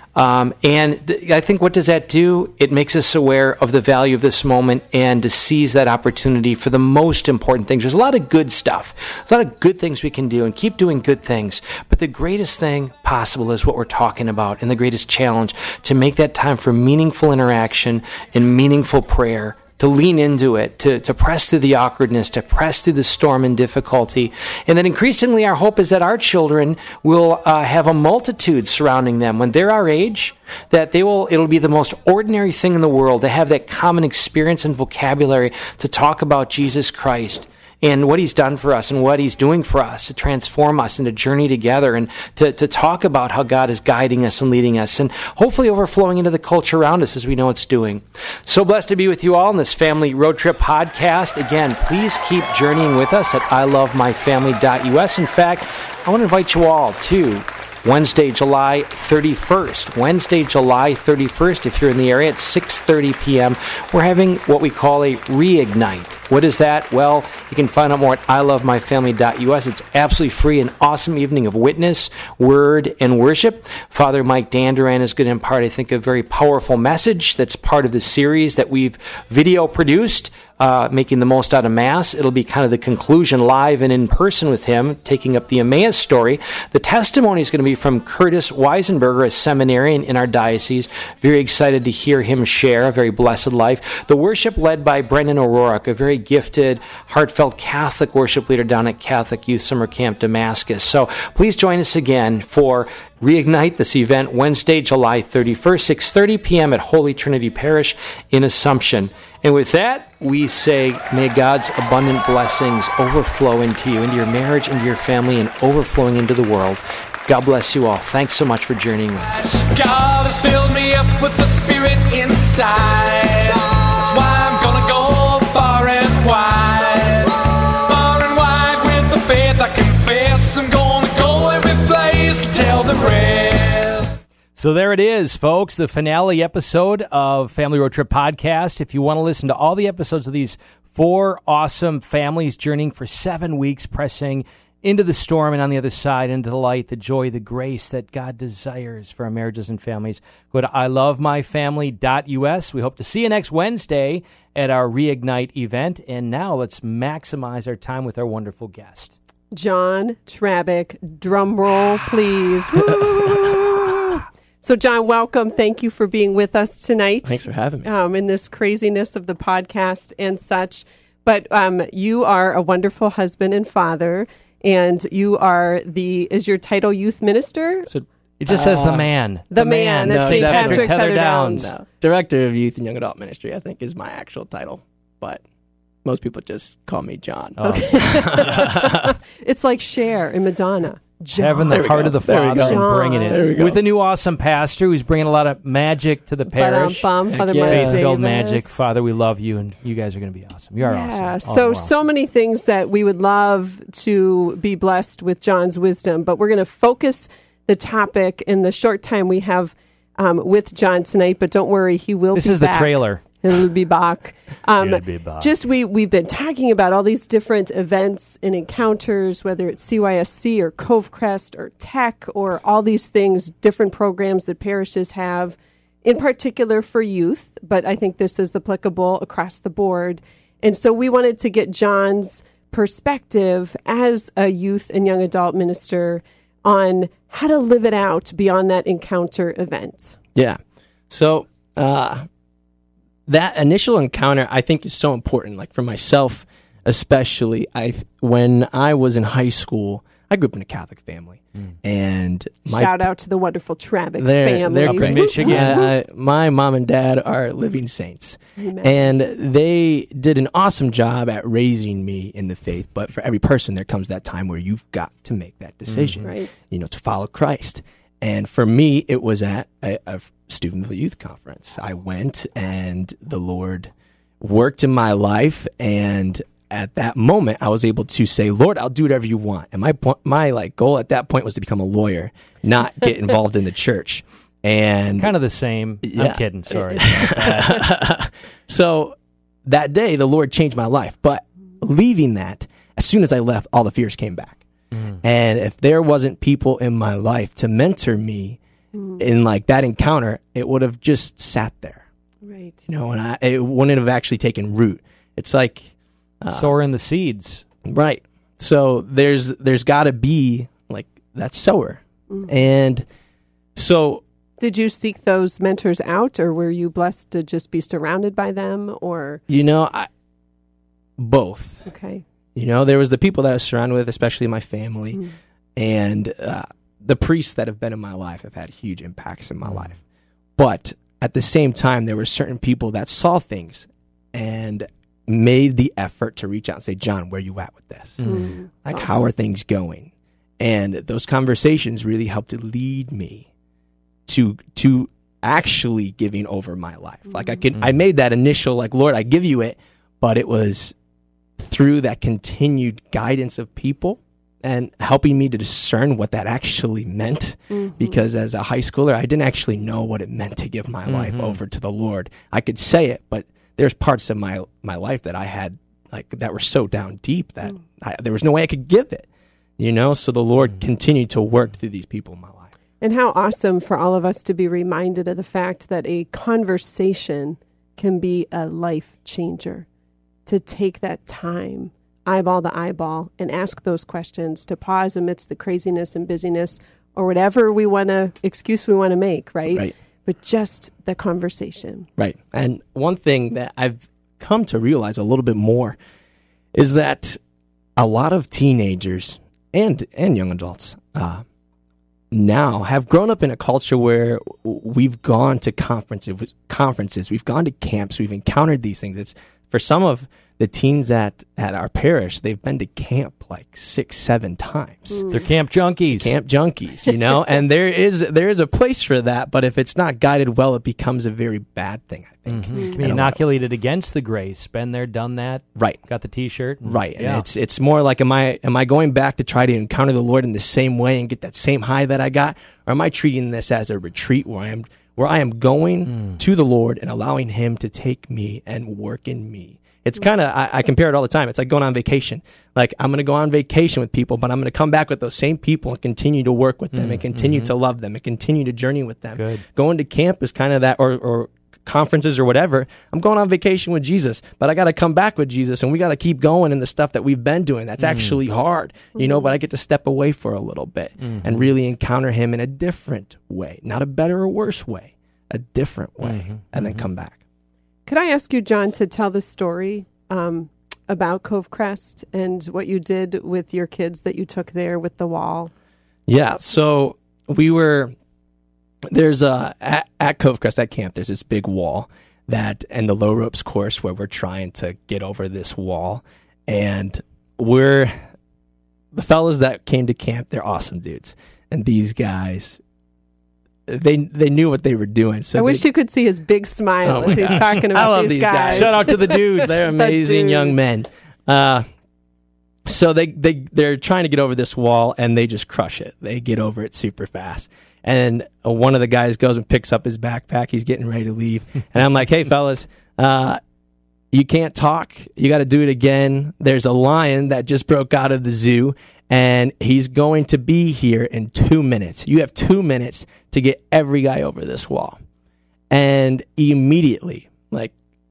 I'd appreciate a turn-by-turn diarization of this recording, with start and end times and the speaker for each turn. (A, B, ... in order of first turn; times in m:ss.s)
0:00.1-1:59.6 A
1:59.4-2:14.2 B
2:14.6-2:39.2 A
2:39.5-2:57.9 C
2:42.8-2:43.5 D
2:47.2-2:47.9 D
2:57.9-2:59.1 D
2:58.4-3:01.7 A
2:59.5-3:01.9 C
3:00.0-3:05.4 D
3:06.0-3:09.1 D
3:07.6-3:08.0 A
3:07.6-3:13.6 C
3:11.3-3:22.0 A
3:11.7-3:13.8 D
3:16.5-3:18.8 C
3:17.3-3:18.0 D
3:20.8-4:00.2 C
3:32.3-3:33.2 A
3:34.8-3:35.5 A
4:01.1-4:02.3 D
4:03.3-4:13.1 D
4:12.7-4:15.9 C
4:14.2-4:45.3 D
4:14.9-4:15.8 A
4:18.6-4:19.1 C
4:25.9-4:26.3 A
4:26.2-4:26.6 C
4:45.2-4:47.6 A
4:46.0-4:54.6 D
4:54.9-4:55.2 A
4:55.2-4:58.6 D
4:58.9-4:59.3 C
4:59.2-5:02.0 D
5:02.4-5:02.9 C
5:02.9-5:06.7 D
5:06.5-5:07.6 A
5:07.9-5:13.0 D
5:12.3-5:12.6 C
5:13.8-5:14.2 D
5:14.6-5:19.4 C
5:19.5-5:20.1 D
5:21.2-5:21.9 D
5:21.9-5:22.2 C
5:22.6-5:25.2 D
5:25.8-5:30.0 D
5:29.6-5:29.9 A
5:30.6-5:43.5 D
5:38.2-5:38.5 A
5:38.2-5:39.3 C
5:44.3-5:51.0 D
5:47.3-5:47.6 C
5:51.6-6:09.3 D
5:57.7-5:58.2 C
6:01.1-6:01.6 A
6:09.8-6:12.7 D
6:13.0-6:19.9 C
6:20.4-6:32.1 C
6:29.7-6:29.9 D
6:32.2-6:36.0 D
6:36.7-6:37.4 D
6:38.0-6:41.4 D
6:42.3-6:55.3 D
6:55.1-6:55.4 C
6:55.3-6:56.4 A
6:56.1-7:03.4 D
7:02.5-7:07.5 A
7:02.7-7:03.0 C
7:06.8-7:47.4 D
7:16.1-7:16.4 A
7:26.9-7:27.7 A
7:29.4-7:29.6 A
7:38.0-7:38.4 A
7:39.1-7:39.5 C
7:41.2-7:41.7 A
7:46.2-7:47.1 A
7:48.0-7:55.7 C
7:56.3-7:58.1 D
7:59.1-8:08.2 D
8:09.1-8:12.8 D
8:13.9-8:15.9 D
8:15.6-8:20.8 C
8:17.0-8:21.9 D
8:17.3-8:17.8 A
8:18.7-8:19.8 A
8:22.9-8:33.6 D
8:34.3-8:45.2 D
8:45.9-8:47.9 D